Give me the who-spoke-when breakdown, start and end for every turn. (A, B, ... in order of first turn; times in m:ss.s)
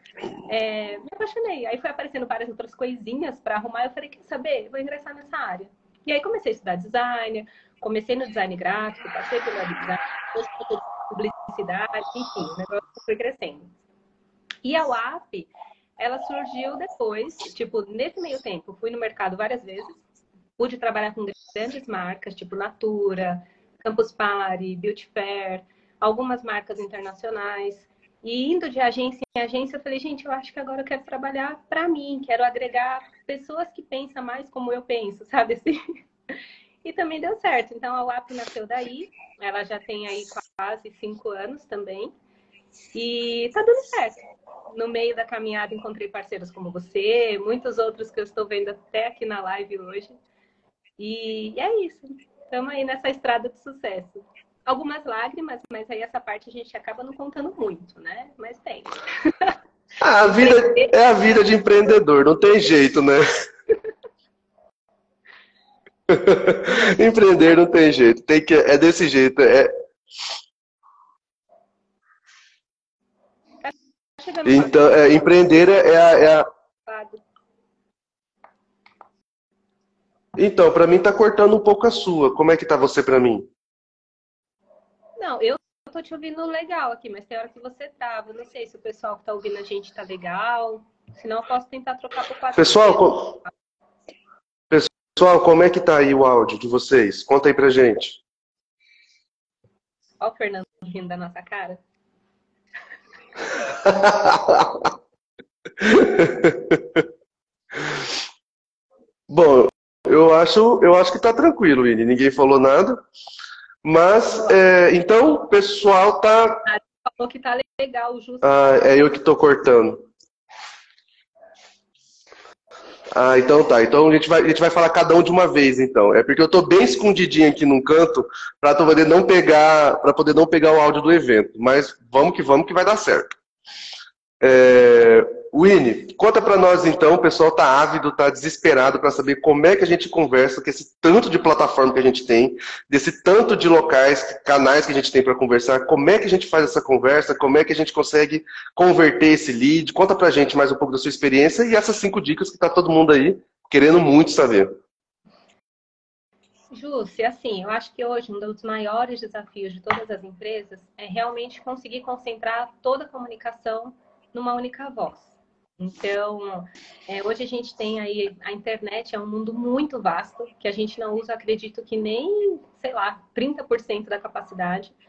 0:00.5-0:13.7 A
0:14.6-0:20.0 A
0:20.6-0:35.8 A
0:36.8-0:42.1 A
0:42.9-0:50.2 A
0:51.0-0:59.5 A
1:00.0-1:03.2 B
1:00.2-1:01.4 A
1:06.1-1:09.7 B
1:13.6-1:15.0 A
1:14.4-1:16.5 B
1:16.9-1:17.2 A
1:20.4-1:23.5 B
1:25.2-1:33.5 A
1:32.5-1:33.4 B
1:34.7-1:38.2 B
1:40.2-1:41.8 A
1:43.8-1:44.9 B
1:45.8-1:47.0 B
1:49.3-1:53.0 B
1:53.8-1:56.6 B
1:56.6-1:59.0 A
1:58.4-2:00.0 B
2:03.1-2:13.3 B
2:14.4-2:34.7 B
2:36.7-2:55.0 A